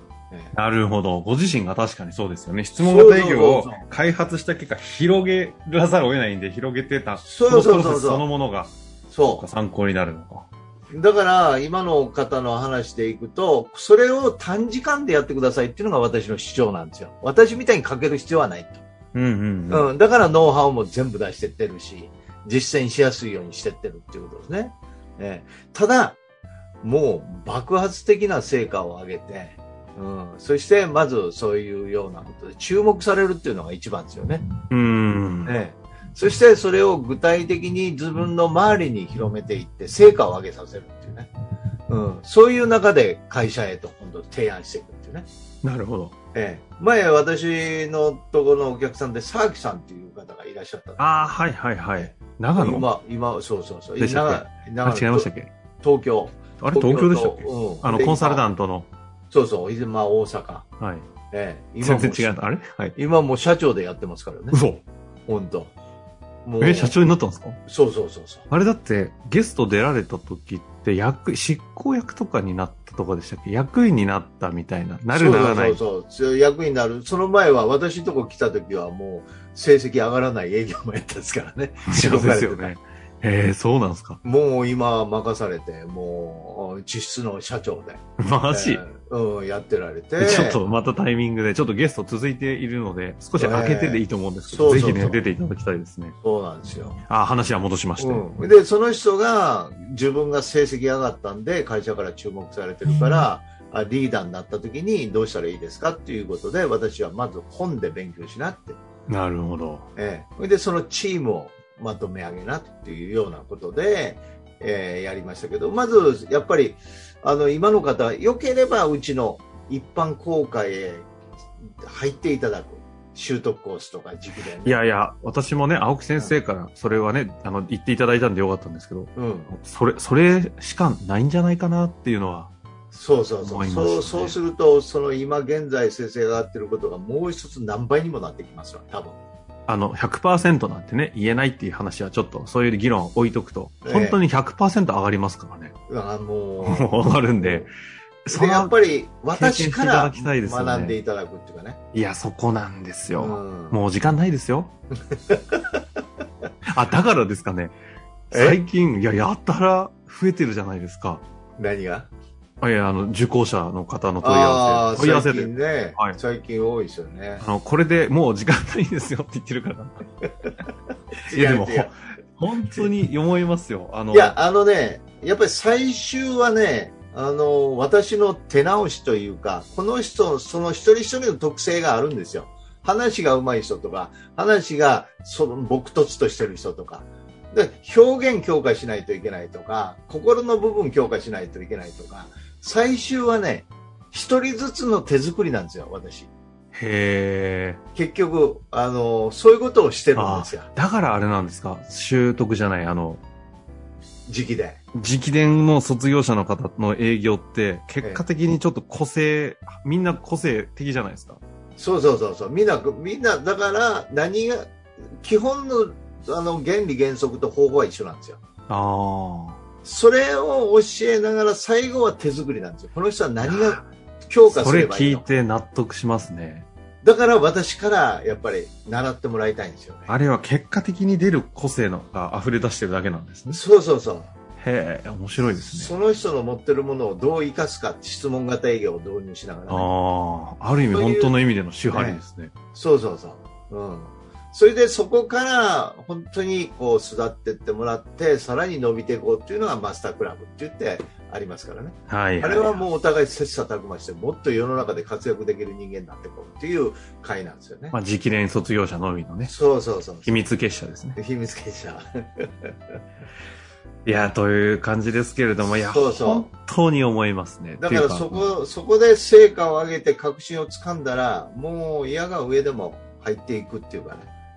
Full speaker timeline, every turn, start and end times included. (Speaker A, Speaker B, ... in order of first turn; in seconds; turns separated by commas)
Speaker A: 0.5-10.5, Speaker B: 2.8-3.8, Speaker B: 7.2-8.2, Speaker B: 9.1-9.4, Speaker B: 10.9-18.8, Speaker A: 19.1-19.9, Speaker B: 19.7-26.2, Speaker B: 26.8-34.5, Speaker A: 34.7-35.5, Speaker B: 35.5-41.3, Speaker B: 41.9-45.3, Speaker A: 45.6-46.1, Speaker B: 46.3-51.3, Speaker A: 51.0-52.9, Speaker B: 52.0-55.3, Speaker A: 54.0-55.5, Speaker B: 55.8-58.5, Speaker A: 56.6-58.9, Speaker B: 59.3-60.7, Speaker A: 60.8-61.1, Speaker B: 61.3-62.3, Speaker A: 61.8-63.0, Speaker B: 63.0-64.6, Speaker A: 64.5-64.8, Speaker B: 65.3-65.7, Speaker B: 66.5-67.0, Speaker A: 66.6-67.6, Speaker B: 67.7-68.5, Speaker A: 68.5-75.8, Speaker B: 75.1-82.7, Speaker A: 81.9-84.2, Speaker B: 84.2-90.6, Speaker A: 88.2-88.8, Speaker A: 90.2-96.1, Speaker B: 93.4-95.2, Speaker B: 96.2-97.0, Speaker A: 97.1-98.2, Speaker B: 98.0-108.8, Speaker A: 109.1-109.9, Speaker B: 110.0-121.1, Speaker B: 121.7-124.8, Speaker A: 124.6-132.5, Speaker B: 129.2-129.6, Speaker B: 132.9-139.2, Speaker A: 133.4-134.4, Speaker A: 139.7-145.8, Speaker B: 143.8-144.2, Speaker B: 145.9-147.7, Speaker A: 146.6-147.7, Speaker A: 148.3-148.7, Speaker B: 148.3-151.8, Speaker A: 149.3-151.0, Speaker A: 151.9-154.7, Speaker B: 153.2-153.8, Speaker B: 155.1-155.8, Speaker A: 156.7-157.7, Speaker A: 158.3-161.2, Speaker B: 158.3-158.6, Speaker B: 161.6-162.1, Speaker A: 162.6-166.2, Speaker B: 164.2-167.4, Speaker A: 167.4-170.0, Speaker B: 171.3-171.9, Speaker A: 171.3-174.4, Speaker B: 174.1-196.3, Speaker A: 196.7-197.8, Speaker B: 197.9-200.7, Speaker A: 200.2-203.2, Speaker B: 204.3-204.8, Speaker A: 205.0-211.4, Speaker B: 211.8-218.4, Speaker A: 218.7-219.6, Speaker B: 219.8-225.3, Speaker A: 223.4-223.8, Speaker A: 224.5-226.7, Speaker B: 227.0-230.1, Speaker A: 230.1-233.6, Speaker B: 233.5-234.3, Speaker A: 234.6-235.9, Speaker B: 235.6-239.9, Speaker A: 239.7-242.5, Speaker B: 240.9-241.4, Speaker B: 241.9-242.2, Speaker B: 242.7-258.0, Speaker A: 252.1-252.9, Speaker A: 257.9-259.5, Speaker B: 259.4-260.5, Speaker A: 260.2-261.2, Speaker B: 261.2-262.7, Speaker A: 264.1-268.6, Speaker B: 265.6-266.5, Speaker B: 267.8-274.3